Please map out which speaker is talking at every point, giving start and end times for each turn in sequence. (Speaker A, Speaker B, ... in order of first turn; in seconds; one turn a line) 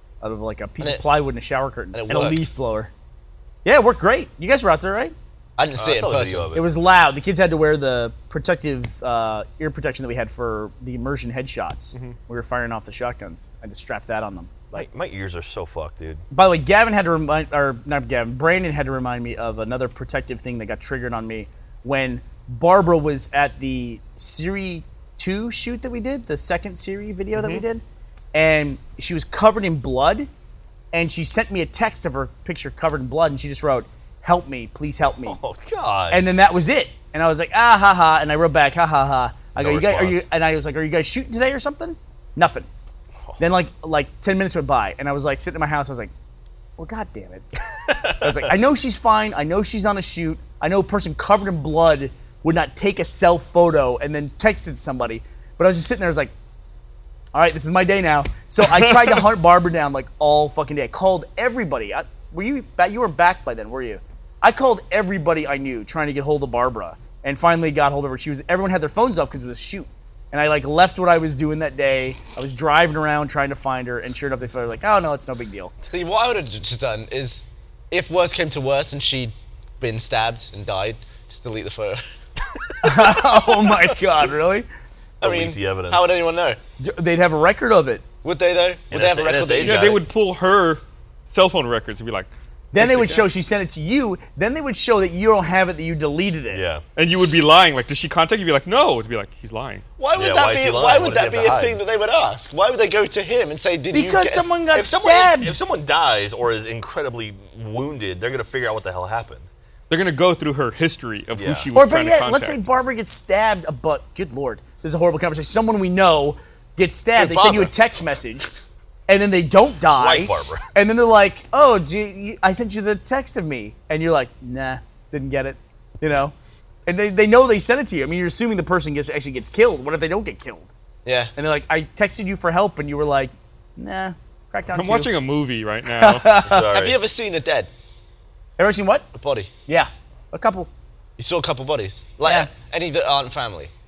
Speaker A: 0.2-2.9
Speaker B: 0.8-1.1
Speaker B: 1.9-2.5
Speaker A: 3.6-5.1
Speaker B: 5.6-6.5
Speaker C: 5.8-6.7
Speaker A: 6.5-14.9
Speaker C: 14.7-16.2
Speaker A: 16.3-27.8
Speaker D: 27.3-27.6
Speaker A: 28.3-30.3
Speaker A: 30.9-35.4
Speaker C: 35.2-36.3
Speaker A: 36.1-42.7
Speaker C: 39.6-40.2
Speaker A: 43.4-46.1
Speaker A: 46.8-47.5
Speaker C: 47.9-48.3
Speaker A: 48.2-56.3
Speaker A: 57.3-75.7
Speaker D: 58.6-59.2
Speaker B: 75.8-82.0
Speaker A: 82.8-84.7
Speaker C: 83.0-83.2
Speaker C: 85.2-86.1
Speaker B: 85.2-86.6
Speaker A: 86.8-88.0
Speaker B: 88.2-90.0
Speaker C: 88.9-90.0
Speaker D: 89.6-93.3
Speaker A: 92.7-96.6
Speaker C: 96.5-96.8
Speaker D: 97.0-99.8
Speaker B: 100.0-104.5
Speaker C: 100.2-101.8
Speaker A: 103.9-105.6
Speaker C: 104.7-109.5
Speaker D: 109.9-112.6
Speaker C: 111.3-111.7
Speaker A: 111.8-118.5
Speaker B: 117.2-117.7
Speaker A: 119.1-126.3
Speaker C: 120.0-120.6
Speaker A: 126.9-130.7
Speaker B: 131.1-131.3
Speaker A: 131.4-135.1
Speaker D: 134.7-136.4
Speaker A: 135.9-136.6
Speaker C: 136.4-137.0
Speaker B: 136.7-137.7
Speaker A: 138.6-139.1
Speaker B: 139.1-139.5
Speaker A: 139.7-140.7
Speaker B: 141.2-143.7
Speaker A: 142.2-142.5